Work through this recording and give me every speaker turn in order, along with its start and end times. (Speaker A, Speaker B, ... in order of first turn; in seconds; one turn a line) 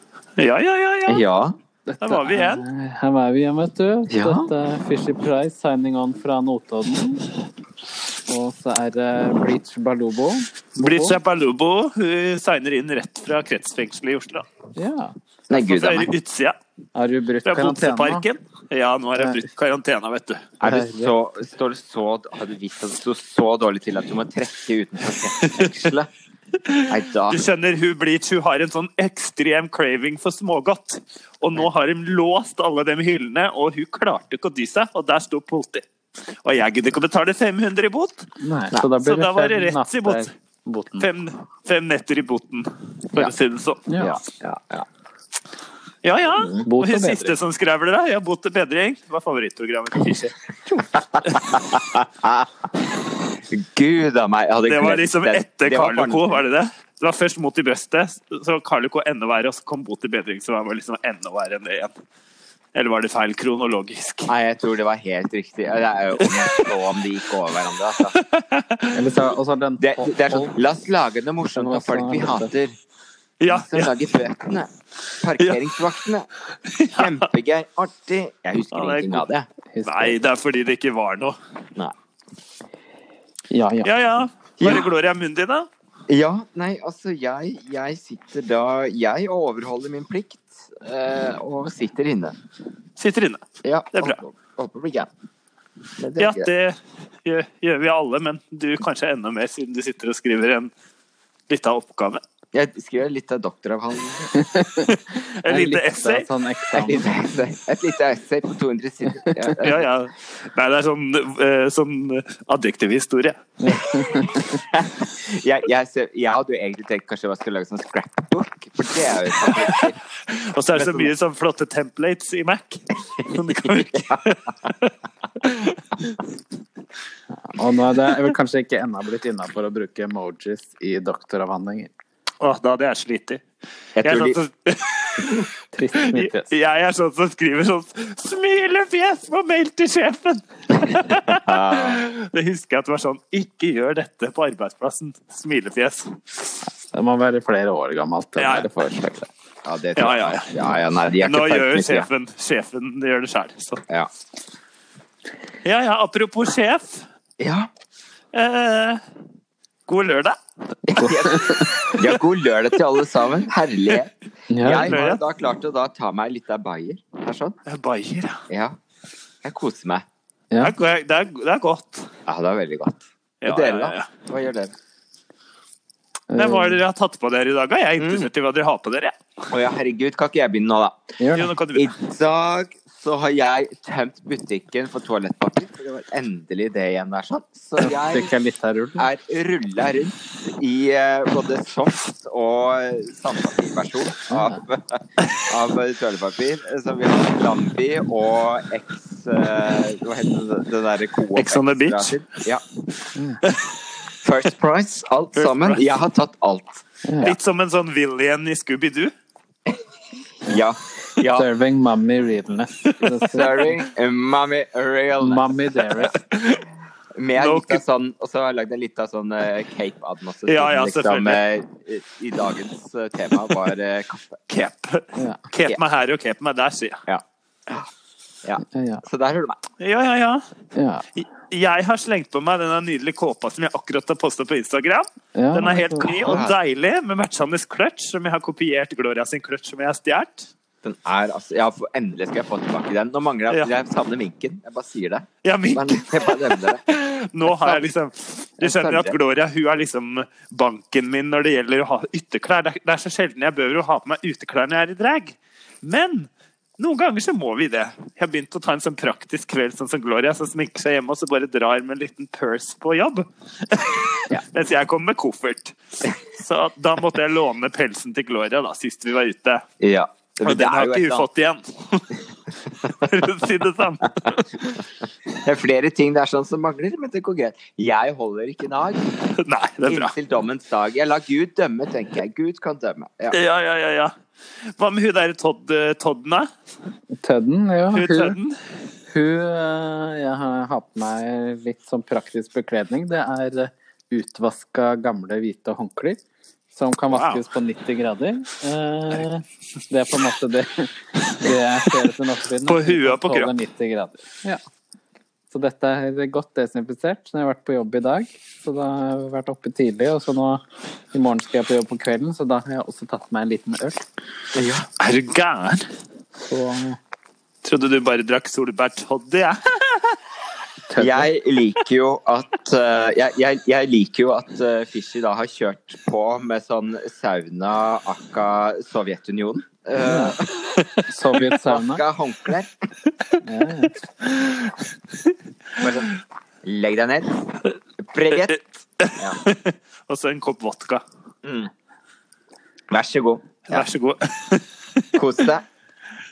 Speaker A: 0.4-1.2
Speaker B: 1.1-1.6
Speaker C: 1.9-7.3
Speaker A: 2.0-2.6
Speaker B: 4.1-4.5
Speaker C: 8.3-11.2
Speaker A: 10.8-14.5
Speaker C: 14.8-15.1
Speaker B: 15.5-16.1
Speaker A: 15.5-16.6
Speaker C: 16.9-18.2
Speaker A: 17.4-20.5
Speaker C: 19.2-19.4
Speaker B: 20.6-26.1
Speaker C: 20.6-21.1
Speaker A: 25.4-25.9
Speaker A: 26.6-35.8
Speaker B: 26.9-27.4
Speaker A: 36.4-38.3
Speaker C: 38.4-41.1
Speaker A: 39.0-40.3
Speaker A: 41.0-43.9
Speaker C: 43.9-44.2
Speaker B: 44.0-44.9
Speaker A: 46.0-50.3
Speaker B: 46.3-46.6
Speaker C: 46.6-47.3
Speaker B: 50.7-52.7
Speaker B: 53.4-56.4
Speaker A: 54.7-61.9
Speaker A: 62.7-64.3
Speaker B: 64.3-68.2
Speaker A: 66.2-66.7
Speaker A: 68.0-69.0
Speaker C: 68.9-70.5
Speaker B: 69.8-72.8
Speaker C: 71.6-72.5
Speaker A: 73.4-73.9
Speaker B: 73.5-74.7
Speaker B: 75.2-76.3
Speaker A: 75.4-75.7
Speaker A: 76.7-77.2
Speaker B: 76.9-79.5
Speaker A: 78.7-79.2
Speaker C: 79.7-80.1
Speaker A: 79.8-81.3
Speaker C: 83.5-83.9
Speaker A: 83.8-85.7
Speaker B: 84.6-84.9
Speaker B: 86.1-92.3
Speaker A: 93.0-94.2
Speaker B: 93.6-95.1
Speaker B: 96.0-96.5
Speaker A: 96.2-100.7
Speaker A: 101.5-102.2
Speaker B: 102.5-104.3
Speaker C: 104.3-104.9
Speaker A: 104.8-106.2
Speaker C: 105.5-107.1
Speaker B: 106.7-109.8
Speaker C: 109.2-109.6
Speaker A: 109.6-113.5
Speaker C: 113.6-114.6
Speaker B: 114.3-120.0
Speaker A: 119.4-126.2
Speaker B: 120.7-121.1
Speaker B: 123.9-124.2
Speaker C: 127.4-131.9
Speaker A: 132.4-133.4
Speaker B: 133.9-134.4
Speaker A: 134.0-146.6
Speaker C: 135.7-136.5
Speaker B: 141.3-142.1
Speaker C: 146.9-149.3
Speaker A: 148.4-148.7
Speaker B: 149.6-152.1
Speaker A: 149.9-150.6
Speaker A: 151.2-153.8
Speaker A: 155.6-157.1
Speaker B: 157.4-157.7
Speaker A: 158.3-159.0
Speaker A: 159.9-162.0
Speaker B: 160.9-167.6
Speaker C: 160.9-161.8
Speaker C: 164.5-165.0
Speaker A: 164.6-165.2
Speaker A: 167.7-168.4
Speaker B: 168.5-168.8
Speaker B: 169.4-170.0
Speaker A: 170.6-172.1
Speaker B: 172.2-174.7
Speaker A: 173.4-174.1
Speaker C: 176.3-176.8
Speaker A: 176.3-179.2
Speaker B: 178.0-178.3
Speaker B: 179.5-181.0
Speaker C: 181.2-181.5
Speaker A: 181.3-181.9
Speaker B: 181.7-188.3
Speaker C: 187.8-189.1
Speaker B: 189.0-202.6
Speaker C: 194.3-194.6
Speaker A: 201.3-202.2
Speaker C: 203.1-203.4
Speaker B: 204.2-206.8
Speaker A: 205.3-205.8
Speaker C: 207.0-207.3
Speaker A: 207.2-209.1
Speaker B: 210.4-211.5
Speaker C: 211.3-213.7
Speaker A: 213.0-213.3
Speaker B: 213.3-216.1
Speaker C: 215.2-216.1
Speaker A: 216.1-216.7
Speaker B: 217.1-224.4
Speaker A: 217.3-217.8
Speaker A: 220.5-221.4
Speaker A: 224.5-227.0
Speaker C: 225.2-225.4
Speaker B: 227.1-227.9
Speaker B: 228.4-229.6
Speaker C: 228.7-229.0
Speaker A: 229.8-230.4
Speaker C: 230.7-231.0
Speaker A: 231.2-240.5
Speaker C: 235.3-236.4
Speaker B: 236.2-236.6
Speaker B: 240.8-246.8
Speaker A: 245.4-269.6
Speaker B: 247.4-247.8
Speaker B: 248.6-249.2
Speaker B: 269.8-271.2
Speaker A: 270.4-272.2
Speaker A: 272.9-274.8
Speaker B: 275.3-279.1
Speaker A: 279.3-280.1
Speaker B: 279.9-283.4
Speaker A: 283.3-284.1
Speaker A: 284.8-286.5
Speaker C: 287.2-288.4
Speaker A: 287.9-288.6
Speaker C: 289.1-296.2
Speaker C: 296.7-304.6
Speaker A: 297.1-297.4
Speaker A: 302.6-303.5
Speaker C: 305.5-314.1
Speaker B: 314.5-314.9
Speaker A: 315.0-315.9
Speaker C: 316.4-317.0
Speaker A: 317.6-320.2
Speaker C: 320.9-321.3
Speaker B: 321.0-330.8
Speaker C: 330.0-330.4
Speaker C: 331.1-332.0
Speaker B: 331.6-332.7
Speaker C: 333.4-333.9
Speaker A: 334.2-334.7
Speaker B: 335.8-336.1
Speaker B: 336.6-337.3
Speaker B: 338.0-338.6
Speaker A: 338.5-341.0
Speaker B: 341.4-341.7
Speaker B: 342.9-343.8
Speaker A: 343.7-345.2
Speaker B: 345.1-345.6